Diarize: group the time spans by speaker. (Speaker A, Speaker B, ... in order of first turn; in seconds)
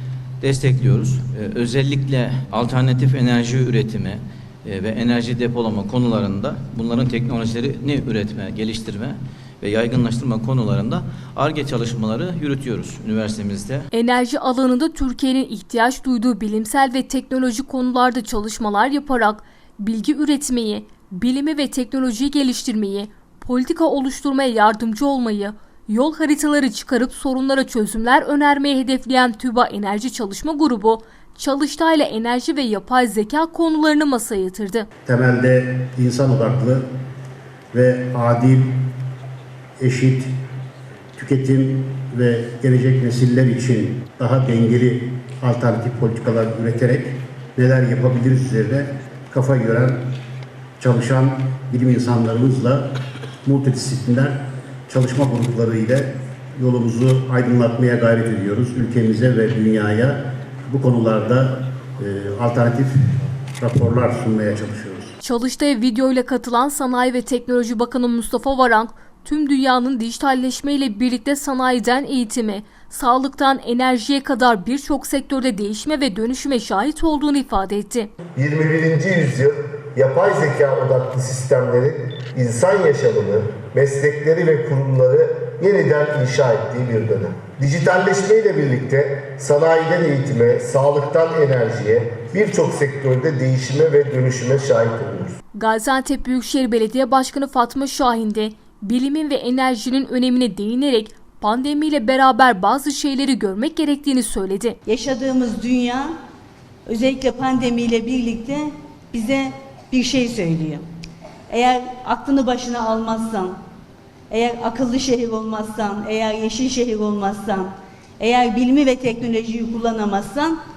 Speaker A: 0.4-13.9
Speaker B: 13.9-34.9, 65.2-78.1, 95.6-104.8
Speaker C: 35.1-36.9, 37.7-38.9, 39.8-40.4, 41.2-50.1, 50.8-62.9, 63.6-65.2
Speaker D: 78.4-95.4
Speaker E: 104.9-106.1, 106.9-110.8, 111.5-113.6, 114.3-120.6